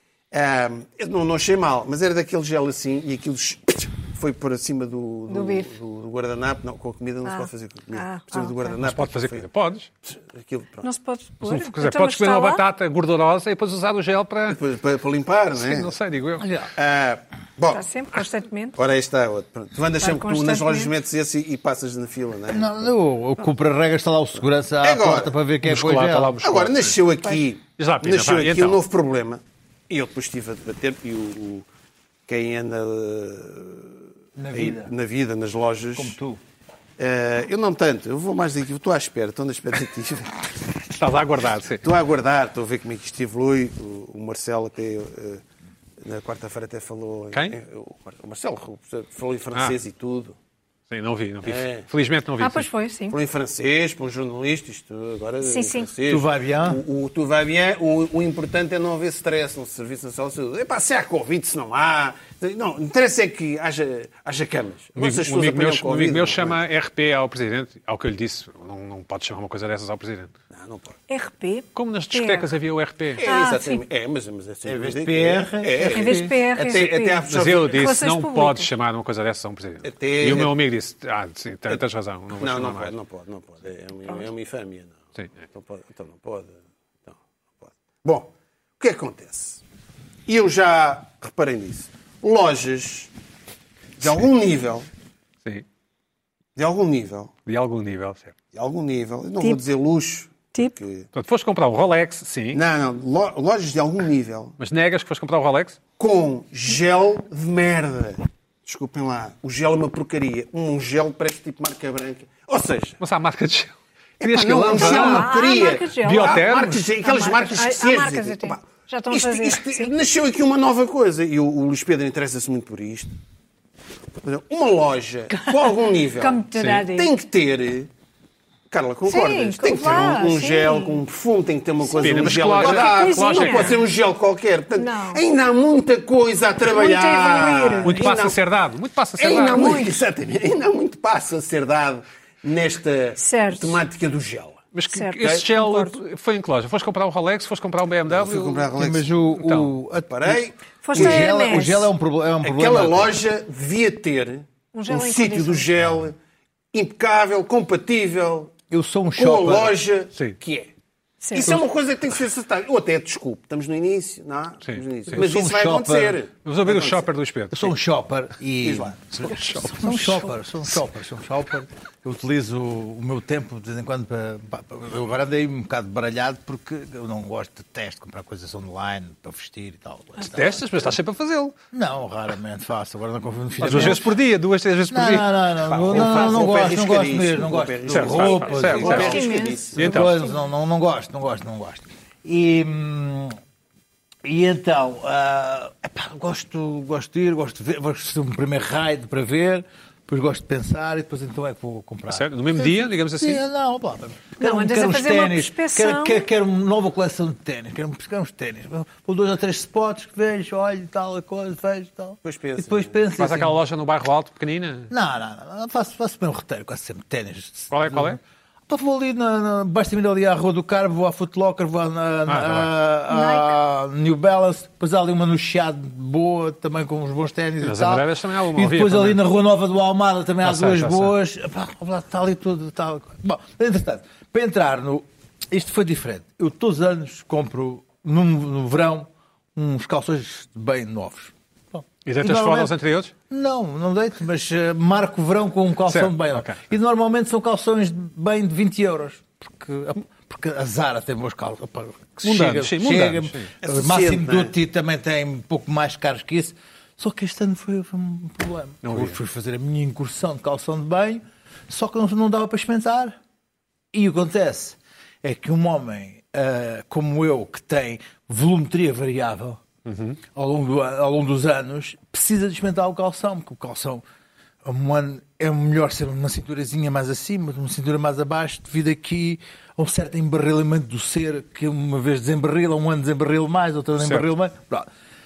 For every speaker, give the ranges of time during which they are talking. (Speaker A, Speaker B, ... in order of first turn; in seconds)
Speaker A: 0.3-9.4, 10.0-10.9, 14.5-15.9, 16.7-17.8, 18.8-22.9, 24.8-25.4, 26.4-31.6, 32.3-33.9, 34.5-36.1, 37.0-40.5, 41.8-45.4, 46.0-50.4, 51.4-51.9, 53.1-66.6, 70.5-71.0, 73.2-77.8, 79.8-80.5, 82.4-89.6, 90.3-93.1, 94.0-94.9, 96.5-97.3, 98.5-101.1, 102.5-104.5, 106.0-113.0, 114.2-123.1, 124.2-127.9, 128.7-138.4, 139.2-144.6, 148.1-149.1, 150.1-151.7, 152.4-156.2, 156.7-158.5, 159.2-160.7, 161.3-167.1, 168.6-169.0, 185.7-190.0, 212.2-213.0, 253.6-254.5
Speaker B: 5.3-5.7, 7.2-8.8, 10.8-12.6, 17.7-18.8, 20.0-20.9, 52.4-53.1, 55.4-55.9, 71.1-72.5, 73.2-73.8, 75.9-78.7, 114.6-119.9, 125.3-127.1, 129.0-131.0, 131.8-133.8, 134.8-135.2, 136.6-138.1, 139.5-139.9, 143.2-143.8, 144.9-145.9, 150.8-151.9, 154.7-155.7, 161.2-161.6, 169.8-170.2, 188.7-190.4, 204.4-206.2, 223.1-223.6
Speaker C: 8.8-9.9, 11.4-14.6, 15.6-16.5, 25.6-27.0, 27.8-28.8, 40.9-41.8, 47.3-47.6, 50.9-52.7, 65.0-70.3, 71.7-73.2, 77.2-82.9, 97.5-98.3, 101.1-102.6, 104.6-105.8, 113.0-115.3, 116.0-116.9, 126.5-126.8, 131.9-133.8, 137.8-139.9, 144.7-148.7, 149.3-149.7, 164.6-165.2, 166.4-167.7, 169.1-169.9, 180.2-181.6, 183.6-186.3, 187.9-189.2, 189.8-190.2, 202.1-203.4, 213.2-214.9, 217.7-218.2, 222.3-222.7, 227.6-229.2, 230.4-231.1, 242.0-243.1, 245.9-246.6, 252.2-253.5, 258.8-259.2, 269.9-270.2, 284.0-284.3
Speaker D: 16.4-16.7, 22.5-26.4, 34.4-34.9, 35.9-36.4, 56.1-56.8, 74.6-76.5, 148.8-153.2, 158.7-159.8, 165.1-166.2, 167.5-180.6, 181.7-184.2, 184.9-193.4, 194.2-213.6, 214.9-242.7, 243.3-263.1, 263.9-269.6, 270.3-274.0, 274.6-284.9